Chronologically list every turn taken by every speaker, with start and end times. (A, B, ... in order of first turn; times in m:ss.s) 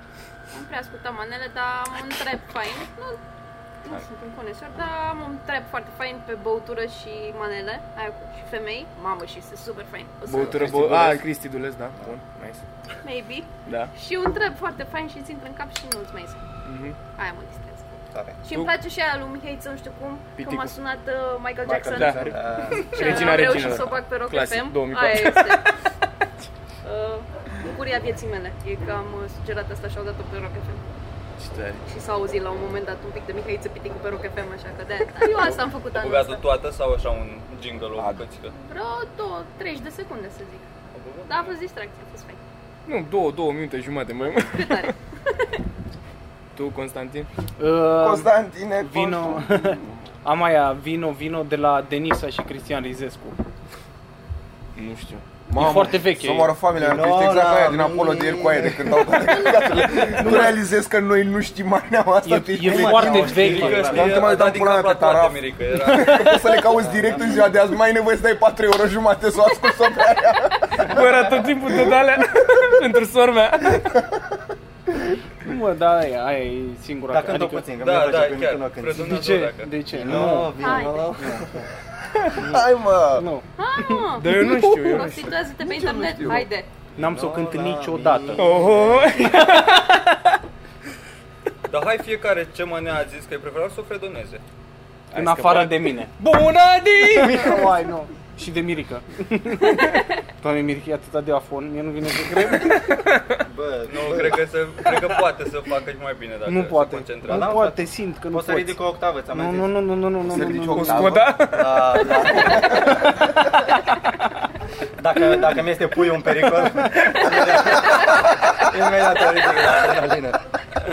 0:00.5-0:03.2 A
0:03.8-0:11.0 A
0:10.2-0:12.6 B
0:10.3-0:11.2 C
0:13.0-0:16.4 A
0:13.6-0:13.9 B
0:16.6-0:17.0 B
0:17.0-0:25.7 A
0:18.1-0:18.4 C
0:20.4-0:20.8 B
0:21.6-0:25.6 B
0:21.9-0:23.4 C
0:26.8-0:30.8 A
0:31.4-0:31.8 B
0:31.8-0:36.4 A
0:35.2-0:38.6 D
0:38.0-0:38.2 E
0:38.6-0:40.7 A
0:40.9-0:41.6 D
0:41.2-0:42.4 A
0:42.9-0:45.0 B
0:44.5-0:45.4 A
0:46.5-0:47.3 B
0:47.6-0:53.4 F
0:48.0-0:50.0 E
0:54.8-0:55.3 B
0:55.5-1:12.5 E
0:55.5-0:56.5 F
0:56.7-1:00.5 C
1:00.2-1:00.5 F
1:02.2-1:04.2 F
1:02.6-1:04.1 C
1:03.1-1:06.3 D
1:05.8-1:06.6 F
1:06.6-1:07.3 C
1:10.8-1:13.9 B
1:13.6-1:14.4 E
1:15.4-1:17.7 F
1:17.1-1:19.2 C
1:17.8-1:19.8 D
1:18.9-1:20.8 F
1:19.9-1:21.7 C
1:20.5-1:21.2 A
1:22.3-1:23.3 E
1:23.1-1:24.8 F
1:23.6-1:26.7 A
1:24.1-1:25.4 B
1:25.6-1:26.5 E
1:27.0-1:28.5 F
1:27.0-1:29.2 C
1:28.4-1:30.3 B
1:31.6-1:34.4 D
1:35.1-1:37.6 B
1:35.1-1:36.1 F
1:37.0-1:43.0 F
1:42.5-1:43.4 B
1:43.4-1:44.5 C
1:43.9-1:47.6 D
1:46.4-1:48.8 F
1:47.2-1:49.8 C
1:49.3-1:51.1 F
1:50.2-1:51.6 E
1:50.7-1:52.9 B
1:51.5-1:53.1 C
1:52.3-1:53.2 E
1:55.0-2:00.4 C